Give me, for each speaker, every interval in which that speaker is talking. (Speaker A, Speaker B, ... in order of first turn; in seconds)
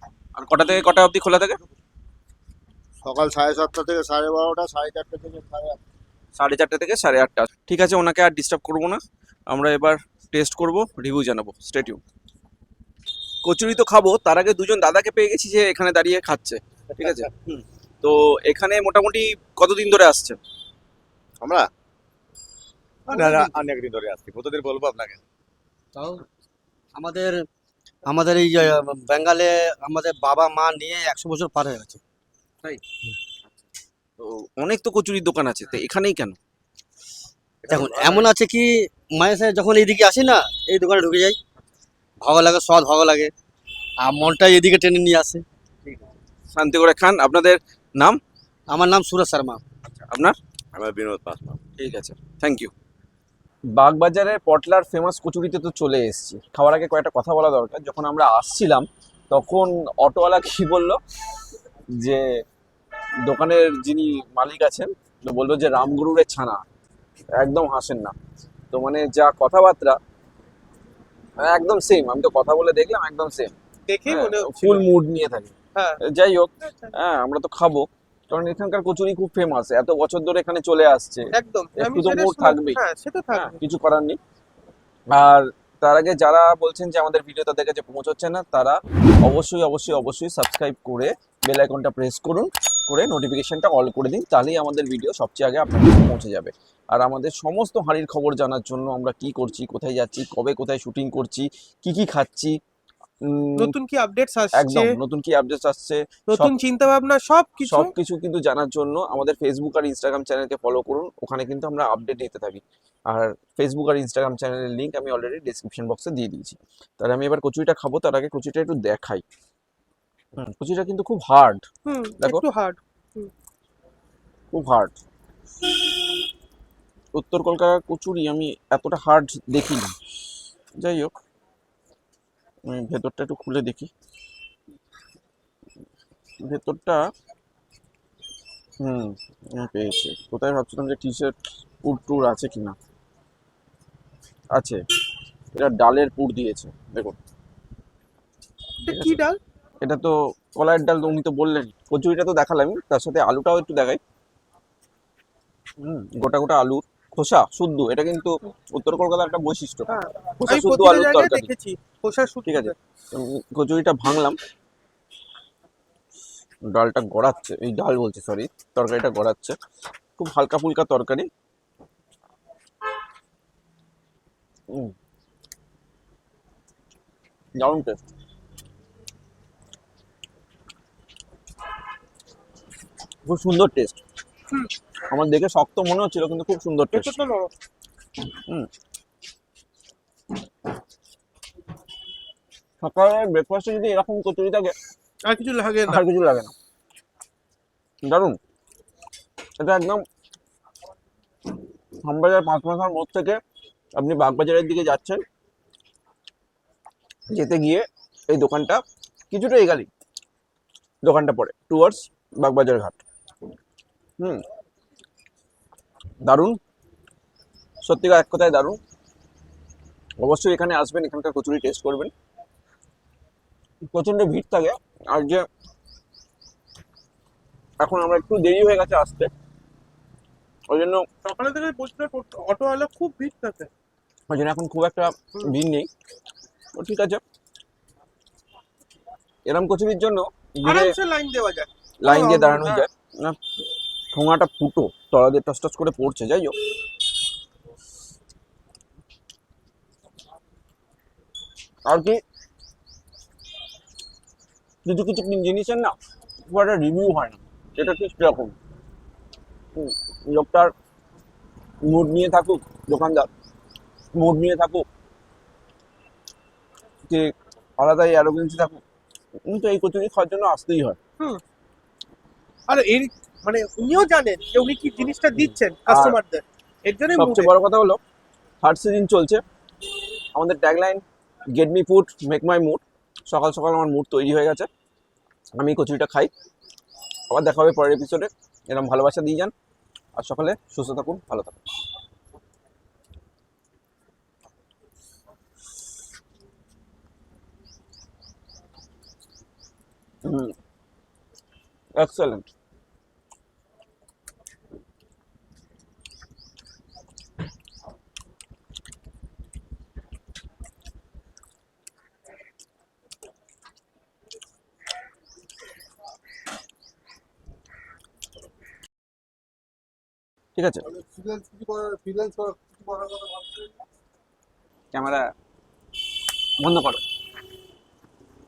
Speaker A: 0.3-1.6, 6.4-12.0, 13.4-20.4, 34.2-36.4, 46.5-48.2, 49.9-50.4, 51.8-52.7, 53.8-61.0, 61.9-62.3, 63.2-66.6, 67.4-68.1, 68.7-70.0, 71.4-73.5, 74.1-82.8, 83.3-84.2, 85.1-102.6, 103.2-103.7, 104.5-106.5, 107.6-119.2, 120.4-121.6, 122.2-122.4, 124.5-124.9, 127.1-129.9, 130.8-131.1, 132.7-133.9, 136.4-137.0, 138.8-142.8, 145.5-147.2, 148.9-149.2, 149.8-154.0, 155.8-161.5, 162.4-164.4, 166.7-169.5, 170.2-171.3, 177.6-178.1, 183.2-184.0, 185.1-187.1, 192.8-194.7, 195.8-196.5, 198.0-198.4, 199.6-200.0, 202.0-203.4, 204.0-205.2, 207.3-209.9, 211.0-213.0, 216.2-216.6, 217.8-218.8, 220.2-222.1, 223.9-225.4, 227.8-229.3, 230.7-231.1, 234.3-235.9, 236.7-237.2, 239.4-240.9, 242.0-243.4, 244.1-246.5, 251.8-252.2, 254.8-255.9, 256.4-258.5, 259.8-260.7, 261.9-263.3, 264.1-264.9, 267.1-268.8, 269.5-271.0, 275.3-276.2, 277.2-278.0, 278.6-279.4, 280.3-281.0, 281.6-284.7, 285.6-286.3, 287.3-289.5, 290.2-291.6, 300.2-300.5, 302.0-302.4, 320.6-320.9, 324.9-325.2, 326.6-327.0
Speaker B: 3.0-5.8, 321.0-323.5
Speaker C: 21.4-21.7, 23.1-25.2, 37.7-38.2, 50.7-51.6
Speaker D: 23.1-23.6, 73.9-74.9, 75.8-76.0, 76.7-76.9, 81.3-83.6, 103.6-104.9, 106.3-107.9, 121.8-123.3, 148.8-149.4, 159.9-162.8, 186.9-187.5, 195.3-196.0, 231.2-233.7, 240.6-242.8, 272.7-277.5
Speaker E: 25.9-26.2, 26.9-27.4, 28.1-32.0, 37.7-41.4, 42.2-43.3, 44.0-45.4, 48.7-49.6